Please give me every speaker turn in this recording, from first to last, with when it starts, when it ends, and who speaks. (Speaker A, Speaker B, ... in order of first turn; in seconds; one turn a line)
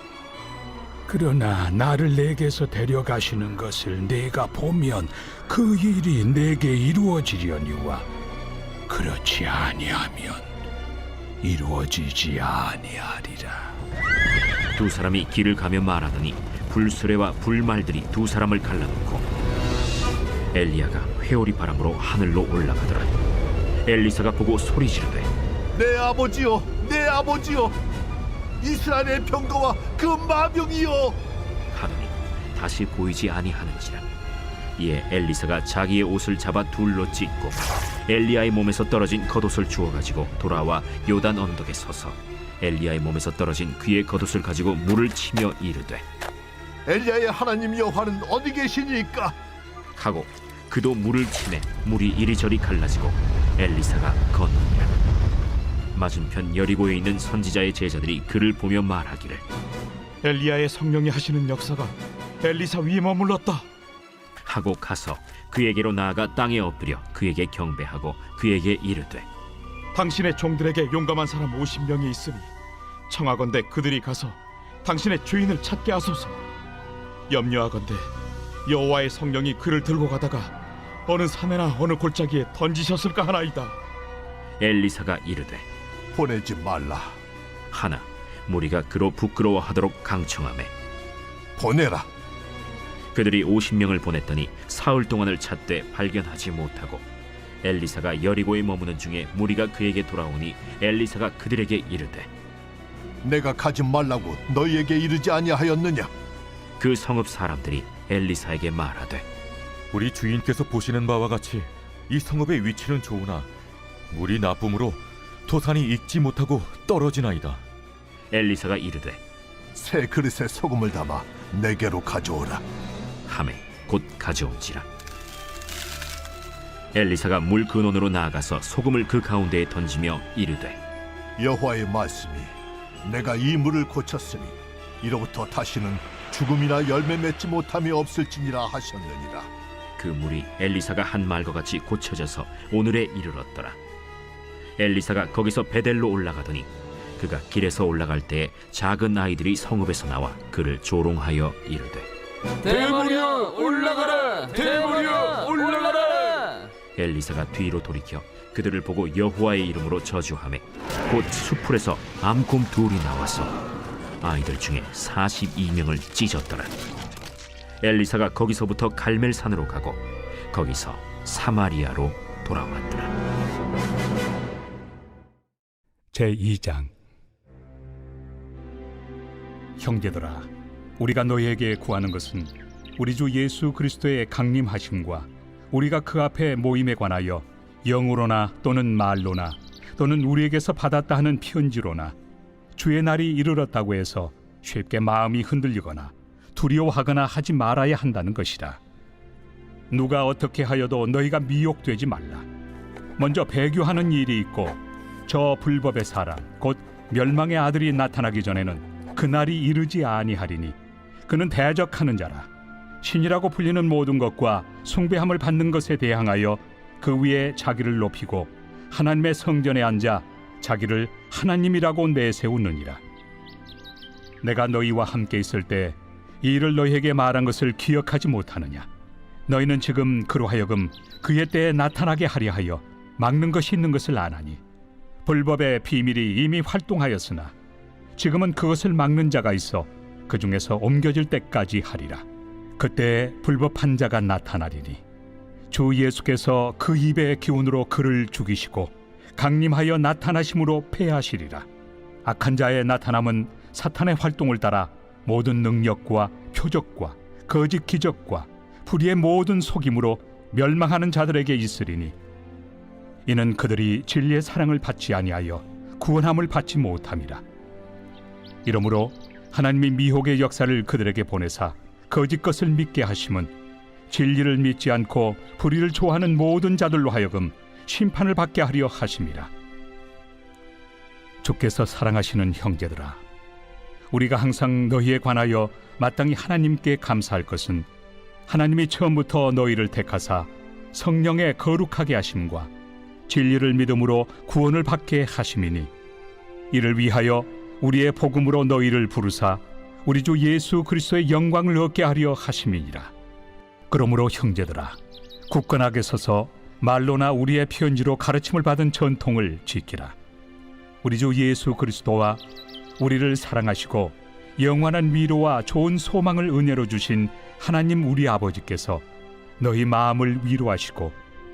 Speaker A: 1.1-8.1
Speaker A: 8.9-10.5
Speaker A: 11.4-13.7
Speaker B: 14.7-19.2
Speaker B: 20.5-23.1
Speaker B: 23.9-25.3
Speaker C: 25.7-27.8
Speaker C: 28.6-31.2
Speaker B: 31.7-34.0
Speaker B: 34.8-46.0
Speaker C: 46.9-49.3
Speaker B: 50.0-54.9
Speaker B: 55.9-59.4
Speaker D: 60.2-63.7
Speaker B: 64.4-69.3
Speaker D: 69.9-72.5
Speaker D: 73.1-76.4
Speaker D: 77.3-78.1
Speaker D: 78.7-80.5
Speaker D: 81.0-83.8
Speaker B: 84.6-85.6
Speaker C: 86.1-87.2
Speaker B: 87.7-90.7
Speaker C: 91.6-92.1
Speaker B: 93.1-97.0
Speaker B: 97.6-102.3
Speaker C: 103.2-106.1
Speaker B: 106.8-109.2
Speaker E: 109.9-113.5
Speaker E: 114.1-117.6
Speaker B: 118.3-119.2
Speaker C: 119.7-122.6
Speaker B: 123.2-124.9
Speaker B: 126.9-130.8
Speaker C: 131.4-132.5
Speaker C: 133.0-139.5
Speaker B: 140.0-143.8
Speaker B: 144.8-152.1
Speaker B: 152.7-153.3
Speaker D: 153.3-153.7
Speaker D: 154.2-155.7
Speaker B: 156.9-163.6
Speaker B: 164.2-166.7
Speaker B: 167.8-173.1
Speaker A: 176.1-176.9
Speaker A: 179.8-180.5
Speaker A: 181.0-192.1
Speaker A: 192.8-198.8
Speaker A: 199.9-202.4
Speaker A: 203.2-210.8
Speaker A: 211.3-212.5
Speaker A: 213.0-223.0
Speaker A: 224.4-228.9
Speaker A: 229.5-234.6
Speaker A: 235.2-237.5
Speaker A: 238.2-242.2
Speaker A: 242.8-245.0
Speaker A: 245.7-251.7
Speaker A: 252.2-262.1
Speaker A: 263.2-267.4
Speaker A: 268.6-273.5
Speaker A: 274.1-279.5
Speaker A: 281.4-283.2
Speaker A: 284.1-287.9
Speaker A: 288.5-292.7
Speaker A: 293.3-295.9
Speaker A: 296.7-303.1
Speaker A: 303.9-305.0
Speaker A: 305.5-310.1
Speaker A: 311.0-312.4
Speaker A: 313.0-319.0
Speaker A: 319.6-321.1